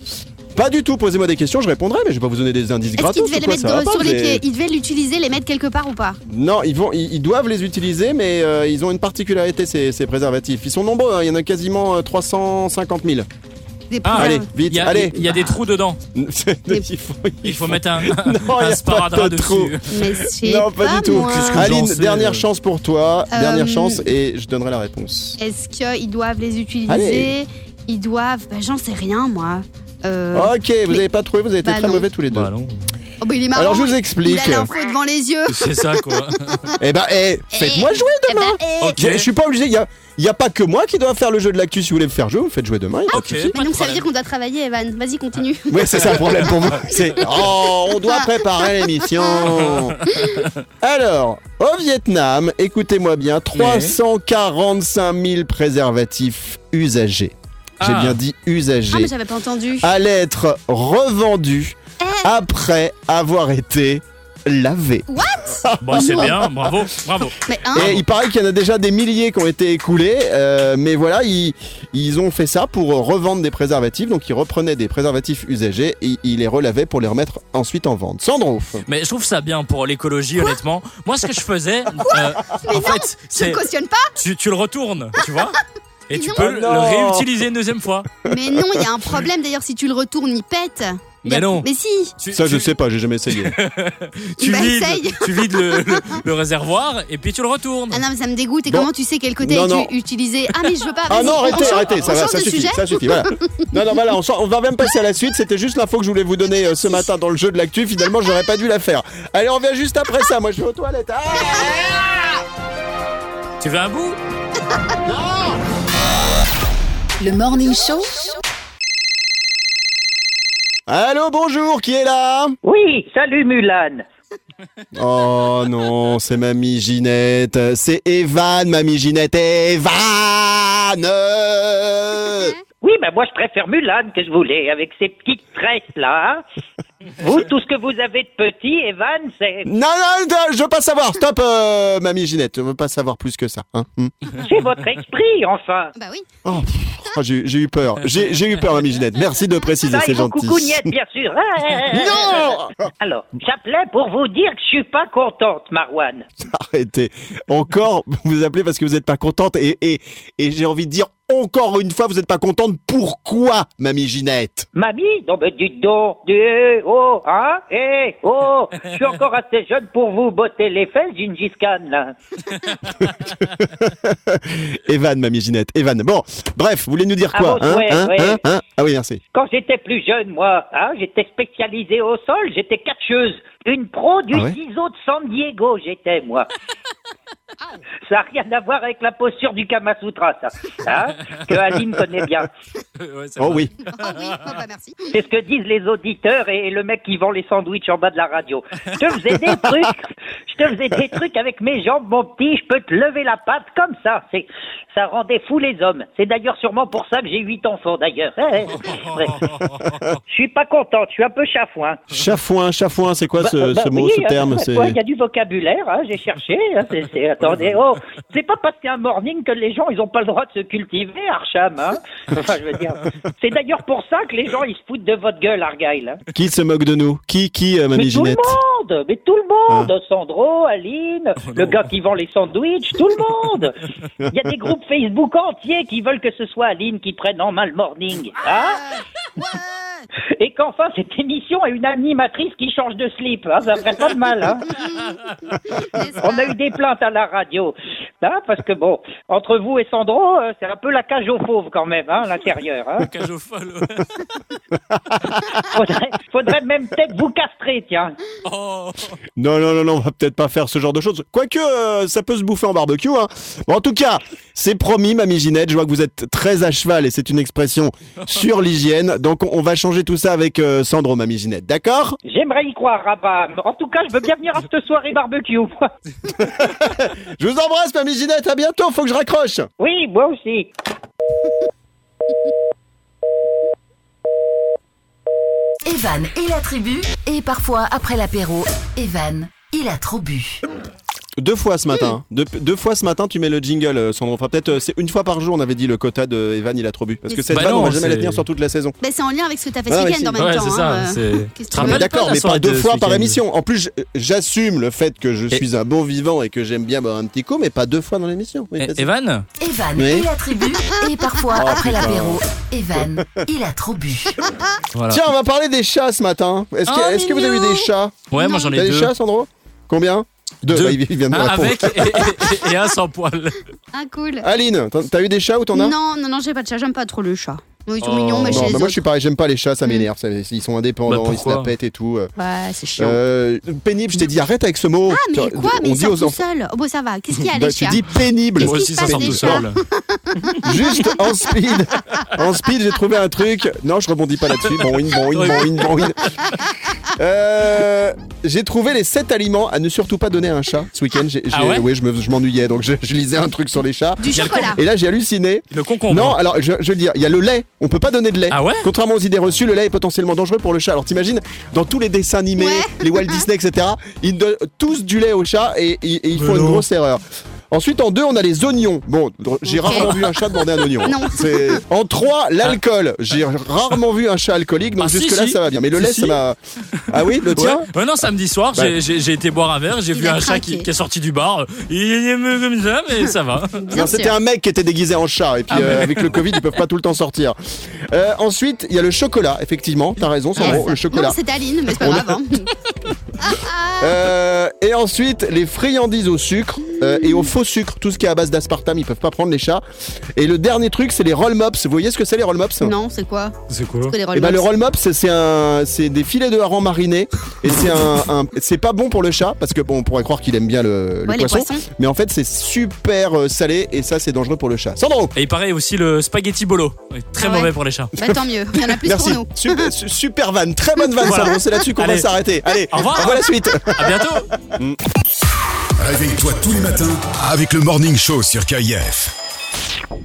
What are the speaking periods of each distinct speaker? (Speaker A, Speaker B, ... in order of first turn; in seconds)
Speaker A: 0.6-4.4, 6.3-13.3, 14.2-15.2, 16.1-25.4, 26.9-27.4, 30.3-32.5, 33.5-34.7, 36.8-43.5, 45.7-50.0, 50.8-59.1, 59.8-66.9, 67.7-78.8, 86.4-87.3, 88.3-88.9, 92.3-93.5, 99.4-99.9, 101.1-112.4, 115.1-115.6, 120.9-122.6, 124.9-132.6, 139.7-144.1, 146.4-150.9, 151.9-152.9, 156.4-164.7, 173.2-179.2, 193.4-193.7, 212.1-215.0, 226.3-228.6, 254.9-255.6, 259.4-272.2, 276.4-279.7, 291.4-299.0, 299.9-300.5, 301.7-309.1, 310.0-310.3, 311.5-312.4, 315.1-322.4, 324.4-325.9, 328.4-332.3, 333.0-336.4, 337.5-339.7, 340.6-346.4, 347.1-376.6, 377.1-377.9, 383.9-387.6, 388.1-391.4, 392.0-392.4, 394.0-399.8, 400.4-402.9, 404.3-415.3, 418.2-425.0
Speaker B: 3.0-6.2, 13.9-14.5, 15.1-15.6, 19.9-21.7, 23.3-24.1, 25.4-31.0, 31.6-32.1, 33.2-36.0, 37.5-39.0, 43.5-46.5, 48.1-48.9, 50.1-50.4, 58.9-59.9, 62.0-62.3, 65.1-66.3, 67.5-67.9, 82.0-84.1, 86.1-86.4, 88.2-92.1, 94.4-96.2, 97.9-103.7, 145.9-146.3, 193.9-195.1, 238.8-240.1, 245.8-246.5, 299.0-302.1, 318.4-318.7, 323.9-324.5, 325.7-329.0, 332.4-333.2, 335.1-338.0, 338.6-341.2, 354.2-354.8, 362.6-363.4, 369.7-371.8, 380.1-380.9, 383.8-384.4, 390.6-392.7, 393.4-394.2, 402.8-403.6, 404.1-404.7, 411.3-411.8, 417.4-419.9
Speaker C: 14.1-16.0, 17.4-19.9, 21.1-22.4, 32.3-32.8, 35.5-36.7, 38.8-39.3, 43.1-44.1, 46.1-46.9, 49.6-50.5, 53.5-54.0, 57.8-58.2, 65.8-68.0, 78.9-83.6, 84.2-85.6, 86.1-88.1, 91.2-91.7, 92.2-92.7, 93.3-98.0, 113.6-114.2, 193.0-194.6, 208.8-210.0, 231.5-231.8, 253.0-254.3, 258.4-259.2, 297.5-298.4, 300.4-303.4, 308.8-309.5, 314.9-315.2, 316.9-319.1, 320.7-323.6, 328.0-328.8, 331.1-331.7, 338.6-339.8, 345.3-346.3, 351.5-351.9, 354.4-354.7, 355.7-356.4, 358.5-358.9, 366.4-366.9, 369.9-370.3, 375.0-376.4, 376.9-383.8, 385.7-386.5, 390.6-390.8, 403.7-404.1, 415.4-418.1, 421.2-422.3, 422.9-424.5
Speaker D: 117.2-118.4, 285.9-290.6, 309.6-314.4
Speaker E: 122.6-124.1, 132.8-136.4, 137.2-139.7, 144.4-145.9, 149.8-156.2, 164.8-172.2, 177.3-178.4, 179.3-186.5, 188.1-192.5, 195.1-209.5, 210.3-212.0, 213.4-226.2, 227.9-233.8, 234.3-238.8, 240.4-244.7, 246.2-253.1, 255.7-258.2, 272.3-275.9, 279.8-280.7
Speaker F: 426.0-429.3